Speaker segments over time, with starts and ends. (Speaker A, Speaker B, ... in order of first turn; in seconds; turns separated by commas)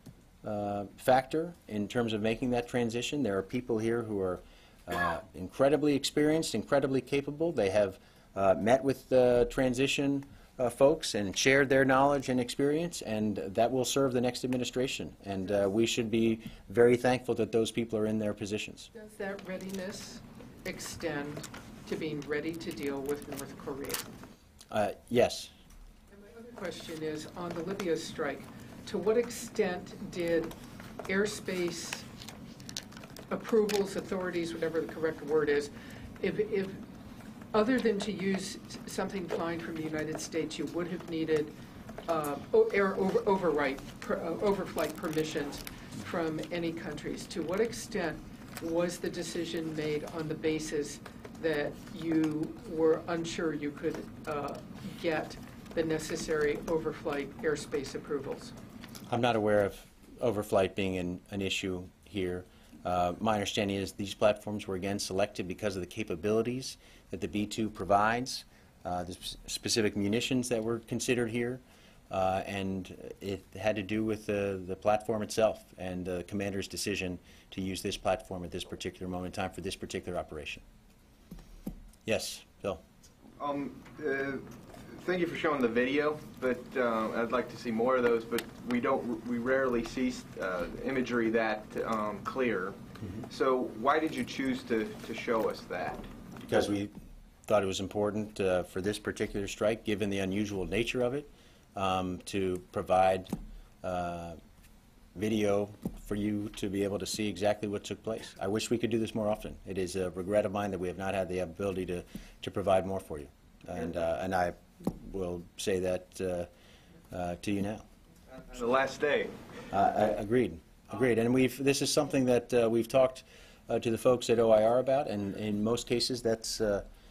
Speaker A: 0.4-18.9, Speaker B: 18.9-24.1, Speaker A: 24.7-25.5, Speaker B: 26.1-32.0, Speaker B: 33.3-36.8, Speaker B: 37.5-41.5, Speaker B: 42.0-58.5, Speaker A: 59.1-80.6, Speaker A: 82.0-82.8, Speaker C: 83.4-96.1, Speaker A: 96.5-96.9, Speaker A: 97.5-104.4, Speaker A: 105.1-116.5, Speaker A: 117.1-117.8, Speaker C: 118.3-119.5, Speaker A: 119.7-126.8